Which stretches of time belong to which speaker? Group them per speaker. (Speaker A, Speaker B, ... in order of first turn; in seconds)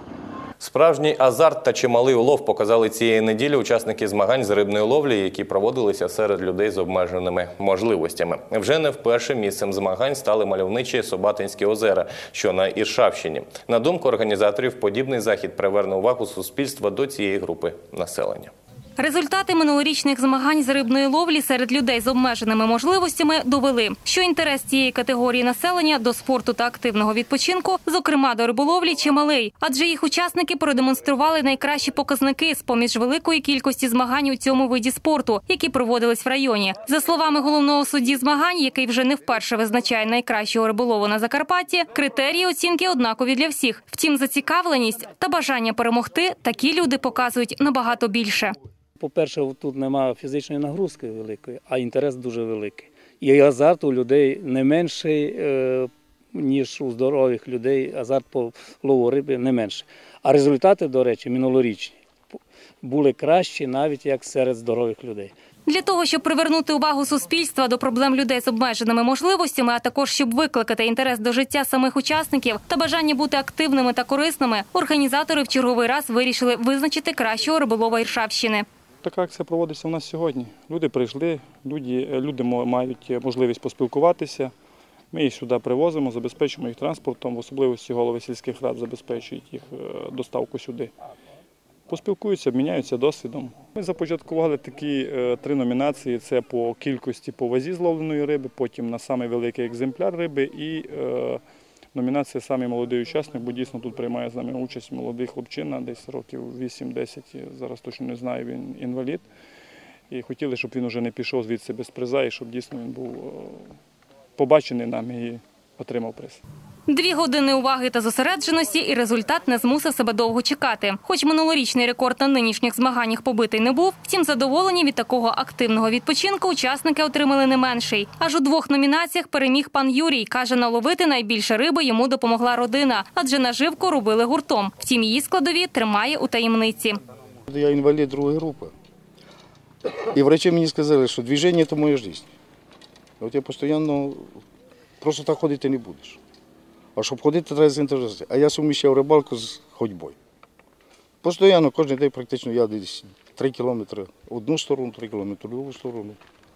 Speaker A: 0.6-18.5
Speaker B: 19.0-48.5, 65.7-78.7, 116.9-137.0
Speaker C: 49.0-62.0, 62.8-65.3
Speaker D: 79.0-84.5, 85.1-90.9, 91.9-101.4, 101.9-109.2, 110.1-113.7, 114.4-116.4
Speaker E: 137.5-138.7, 140.1-142.3, 143.2-144.4, 145.0-146.2, 146.9-150.2, 151.2-156.2